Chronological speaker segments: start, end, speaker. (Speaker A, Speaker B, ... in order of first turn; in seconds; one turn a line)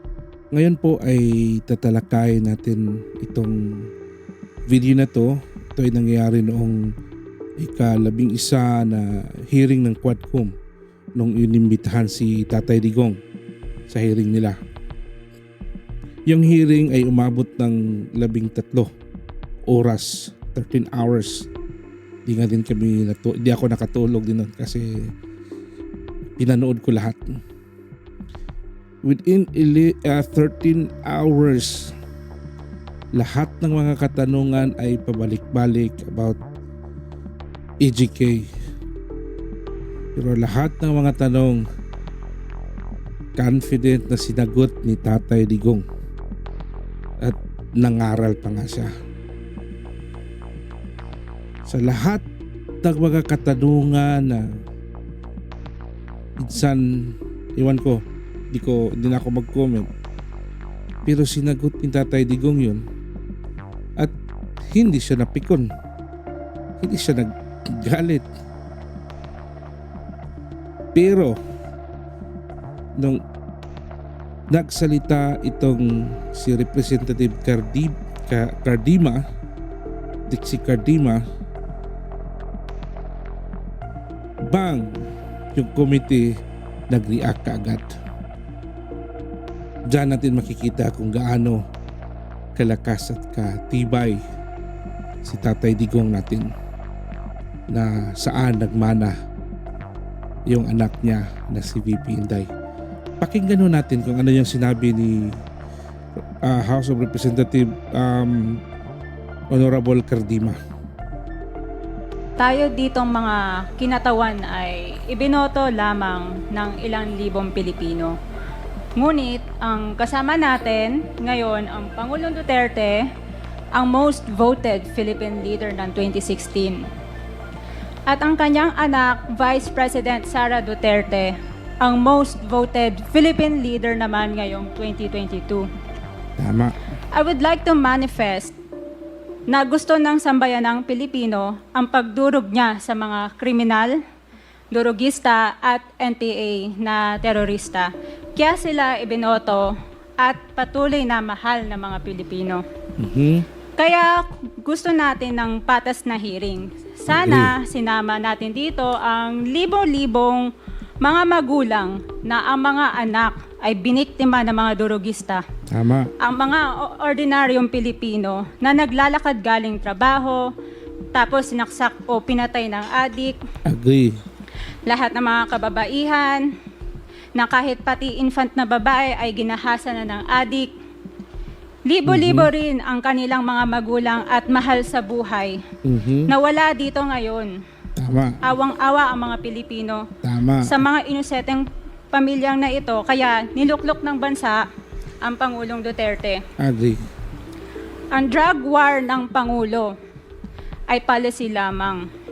Speaker A: 0.5-3.9
Speaker A: 4.7-6.9
Speaker A: 7.6-10.5
Speaker A: 11.2-13.2
Speaker A: 13.9-14.5
Speaker A: 16.3-18.9
Speaker A: 19.7-21.5
Speaker A: 22.2-25.1
Speaker A: 26.4-27.2
Speaker A: 29.0-31.9
Speaker A: 33.1-36.4
Speaker A: 37.8-38.5
Speaker A: 40.1-41.6
Speaker A: 43.4-45.8
Speaker A: 47.2-48.9
Speaker A: 51.7-52.2
Speaker A: 52.8-54.5
Speaker A: 56.4-59.9
Speaker A: 61.0-62.8
Speaker A: 64.7-65.7
Speaker A: 66.8-68.2
Speaker A: 70.9-71.3
Speaker A: 74.5-79.2
Speaker A: 80.3-81.2
Speaker A: 84.4-84.9
Speaker A: 85.5-86.3
Speaker A: 86.9-87.8
Speaker A: 89.9-91.6
Speaker A: 92.5-94.2
Speaker A: 95.2-96.5
Speaker A: 97.7-99.1
Speaker A: 100.5-102.5
Speaker A: 103.2-105.3
Speaker A: 106.4-108.6
Speaker A: 109.5-110.5
Speaker B: 112.4-118.2
Speaker B: 119.0-123.0
Speaker B: 123.7-126.8
Speaker B: 128.1-135.7
Speaker A: 136.4-136.7
Speaker B: 137.1-138.5
Speaker B: 139.5-144.0
Speaker B: 144.7-152.6
Speaker A: 153.0-153.4
Speaker B: 153.8-160.5
Speaker A: 157.1-157.5
Speaker B: 161.0-165.4
Speaker A: 165.7-166.1
Speaker B: 166.2-170.4
Speaker B: 171.1-173.4
Speaker A: 173.7-174.1
Speaker B: 174.9-176.4
Speaker B: 177.3-180.7
Speaker B: 181.9-185.6
Speaker A: 182.1-182.5
Speaker A: 185.8-186.3
Speaker B: 186.3-187.5
Speaker A: 188.0-188.4
Speaker B: 188.4-190.1
Speaker A: 190.2-190.7
Speaker B: 190.6-194.6
Speaker B: 195.2-196.4
Speaker A: 196.6-197.0
Speaker B: 198.1-199.9
Speaker B: 200.9-202.1